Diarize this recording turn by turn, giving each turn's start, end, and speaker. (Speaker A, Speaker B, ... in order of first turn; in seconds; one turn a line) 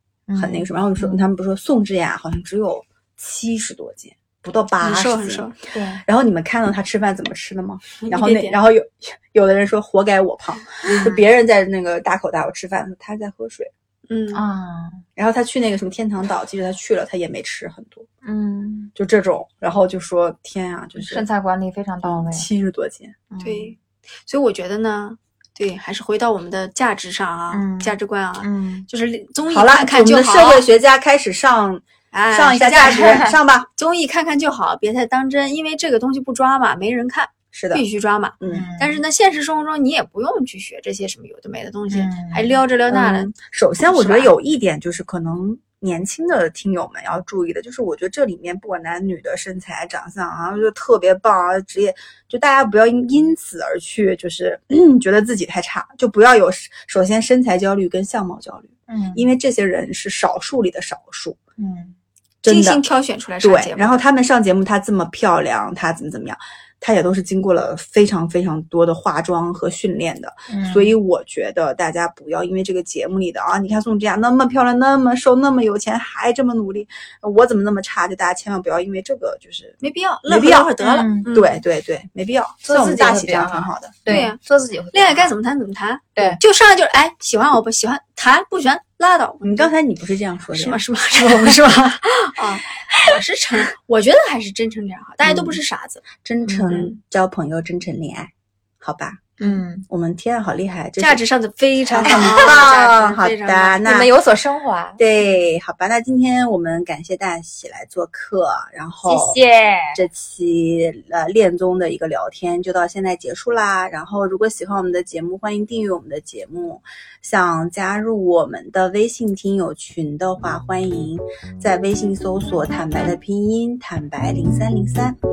Speaker A: 0.3-1.2
Speaker B: 0.3-5.5
Speaker C: 4.8-5.5
Speaker A: 5.7-6.0
Speaker B: 6.0-13.7
Speaker C: 8.0-8.6
Speaker A: 10.8-11.2
Speaker C: 14.1-14.4
Speaker A: 14.3-15.0
Speaker B: 15.2-18.1
Speaker A: 18.2-18.9
Speaker B: 18.9-21.2
Speaker A: 20.9-22.5
Speaker B: 22.0-23.2
Speaker A: 23.3-23.7
Speaker C: 23.4-30.6
Speaker A: 27.5-28.9
Speaker B: 29.5-33.7
Speaker C: 32.1-44.3
Speaker A: 32.8-33.3
Speaker B: 37.5-37.8
Speaker B: 38.4-38.7
Speaker A: 38.5-39.0
Speaker A: 41.9-42.6
Speaker B: 42.9-61.4
Speaker A: 58.9-59.3
Speaker A: 61.6-61.9
Speaker B: 62.4-62.8
Speaker C: 62.4-64.0
Speaker B: 63.4-84.3
Speaker A: 70.5-71.0
Speaker C: 79.8-81.6
Speaker A: 80.8-81.3
Speaker A: 82.7-85.3
Speaker C: 84.1-84.4
Speaker C: 84.9-89.7
Speaker A: 86.1-86.4
Speaker B: 89.4-90.8
Speaker C: 90.5-96.0
Speaker B: 95.2-95.6
Speaker B: 96.2-99.3
Speaker A: 96.4-96.8
Speaker C: 96.7-96.9
Speaker A: 99.4-99.8
Speaker B: 99.9-101.2
Speaker C: 101.0-103.8
Speaker B: 101.9-104.1
Speaker A: 102.0-102.5
Speaker A: 103.8-105.0
Speaker B: 105.0-109.4
Speaker A: 109.0-110.0
Speaker B: 109.9-125.2